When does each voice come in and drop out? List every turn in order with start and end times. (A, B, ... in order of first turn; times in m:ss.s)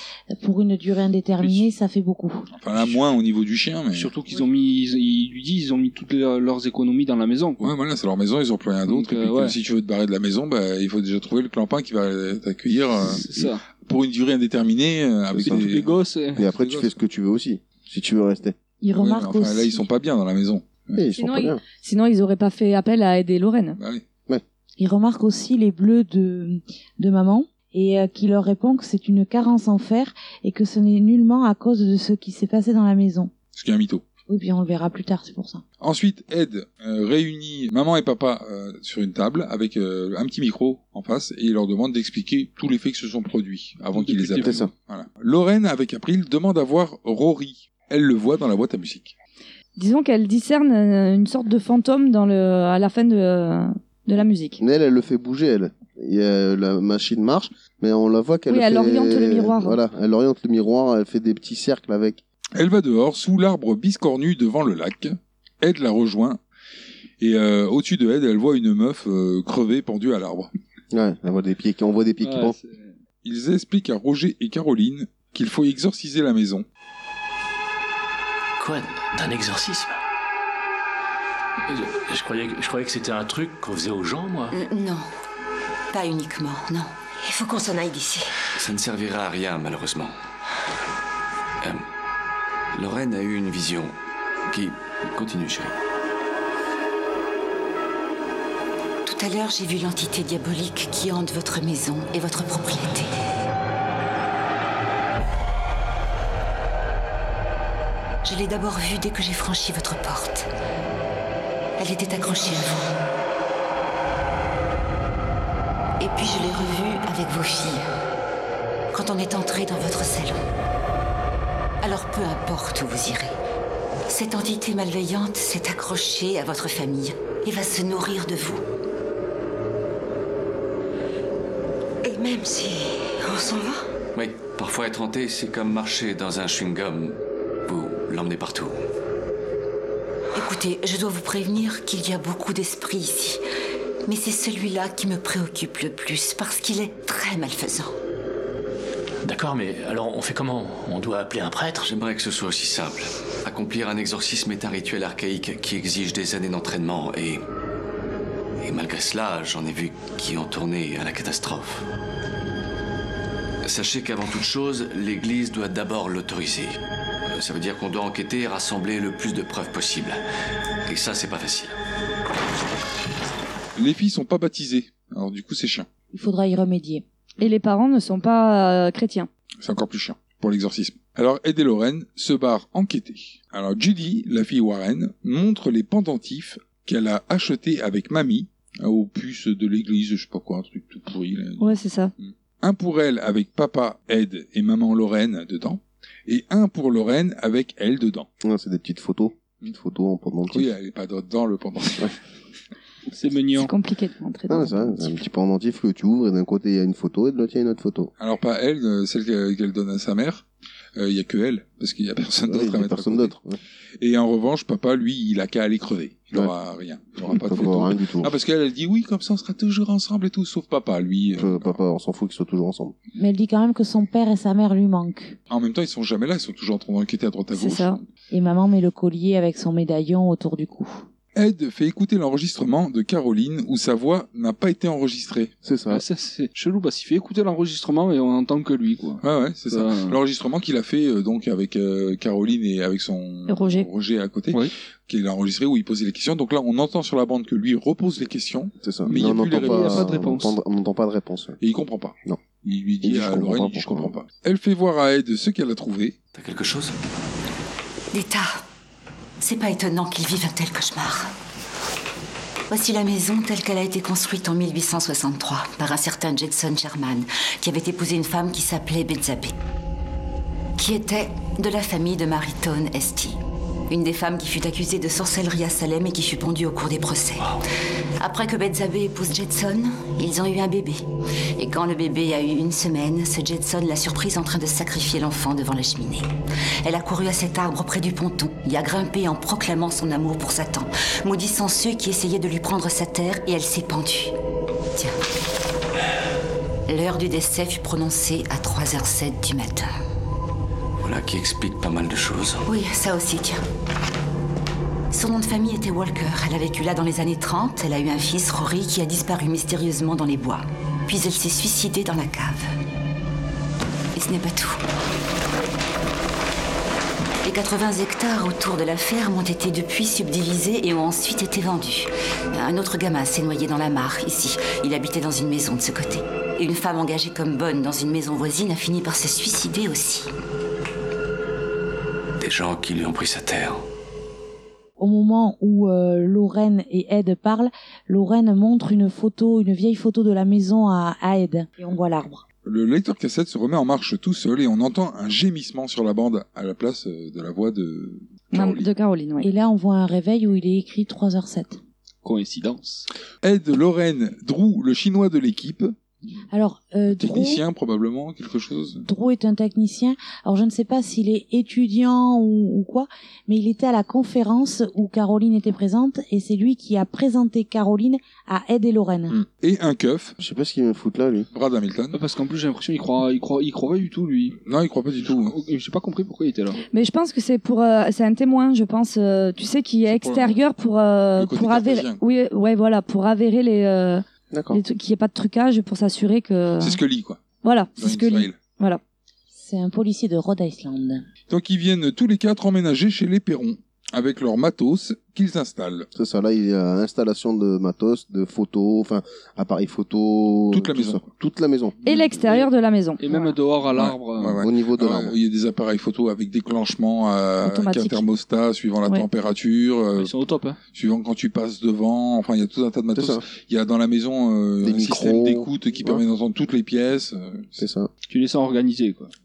0:00.3-0:02.5 A
0:01.4-0:01.7 B
0:02.6-0:04.1 C
0:03.9-0:07.7 B
0:07.6-0:13.2 C
0:08.9-0:09.6 B
0:13.0-0:13.6 B
0:13.8-0:16.9 C
0:15.4-0:15.8 D
0:15.4-0:16.4 B
0:16.4-0:18.6 D
0:18.8-0:19.8 A
0:18.9-0:21.0 C
0:20.9-0:21.6 D
0:21.1-0:23.8 E
0:23.8-0:24.0 C
0:24.8-0:33.3 A
0:33.5-0:34.0 C
0:34.3-0:35.6 A
0:35.8-0:49.1 C
0:43.9-0:44.7 B
0:44.4-0:44.7 D
0:49.8-0:54.6 E
0:54.6-1:02.2 D
0:58.5-0:59.8 E
1:02.5-1:06.4 C
1:07.2-1:10.5 C
1:10.9-1:12.6 D
1:12.2-1:13.0 B
1:13.2-1:16.6 C
1:18.6-1:20.0 F
1:21.7-1:24.6 F
1:24.5-1:25.1 G
1:25.9-1:28.3 G
1:28.5-1:30.1 H
1:32.7-1:33.9 H
1:34.5-1:35.7 H
1:39.0-1:43.1 G
1:48.2-1:50.5 G
1:51.8-1:52.9 G
1:56.0-1:57.9 G
1:58.9-2:00.4 G
2:01.8-2:03.3 G
2:04.1-2:08.6 G
2:12.0-2:13.8 G
2:14.1-2:18.7 H
2:20.3-2:23.4 G
2:24.0-2:27.9 G
2:29.2-2:31.9 F
2:31.8-2:37.4 H
2:38.6-2:41.8 H
2:43.6-2:46.8 H
2:47.3-2:50.2 H
2:50.9-2:51.7 H
2:53.8-2:55.9 C
2:56.1-2:57.0 A
2:57.4-2:59.3 E
2:59.6-3:18.3 C
3:11.6-3:12.1 E
3:18.4-3:20.7 D
3:20.5-3:22.2 C
3:23.1-3:23.7 B
3:23.5-3:25.1 E
3:24.5-3:28.1 D
3:28.2-3:33.4 C
3:32.5-3:33.6 D
3:34.0-3:41.8 C
3:37.2-3:38.3 D
3:41.3-3:43.0 D
3:43.2-3:45.4 A
3:45.5-3:47.9 C
3:47.5-3:48.0 E
3:48.3-3:51.0 A
3:51.3-3:55.5 C
3:55.6-3:56.0 D
3:55.9-4:00.2 B
3:59.2-4:10.1 C
4:03.5-4:03.9 E
4:08.8-4:11.6 D
4:09.1-4:10.5 B
4:11.6-4:16.2 C
4:13.0-4:14.1 D
4:16.3-4:16.9 H
4:18.1-4:18.6 G
4:19.4-4:21.3 G
4:22.7-4:29.5 G
4:30.8-4:33.4 G
4:33.9-4:37.5 G
4:38.2-4:41.0 G
4:41.6-4:46.3 G
4:46.8-4:54.3 G
4:56.9-4:59.9 G
5:01.0-5:02.6 H
5:02.6-5:03.6 G
5:05.1-5:12.7 G
5:14.1-5:14.8 G
5:17.4-5:30.3 G
5:32.4-5:33.8 H
5:35.0-5:42.4 A
5:42.6-5:48.9 C
5:48.5-5:49.5 E
5:49.4-5:51.8 A
5:52.2-5:53.1 B
5:53.4-5:56.0 C
5:56.5-5:57.6 A
5:57.1-5:59.0 C
5:59.0-6:09.4 A
6:09.3-6:10.4 C
6:10.4-6:11.5 D
6:11.5-6:12.2 C
6:12.1-6:14.6 B
6:14.6-6:15.5 C
6:15.2-6:16.8 B
6:16.9-6:27.0 E
6:20.0-6:20.6 C
6:21.4-6:22.2 C
6:24.5-6:24.8 D
6:26.8-6:27.4 C
6:27.6-6:29.0 E
6:28.0-6:28.6 C
6:29.5-6:31.2 A
6:31.5-6:36.1 C
6:36.1-6:42.0 D
6:40.7-6:41.3 C
6:42.0-6:43.2 E
6:43.2-6:44.6 B
6:43.9-6:50.3 C
6:44.6-6:45.4 D
6:47.6-6:48.2 E
6:50.2-6:50.8 B
6:50.9-6:57.8 C
6:53.1-6:53.4 D
6:54.8-6:56.2 D
6:57.8-6:58.1 D
6:58.3-6:59.3 B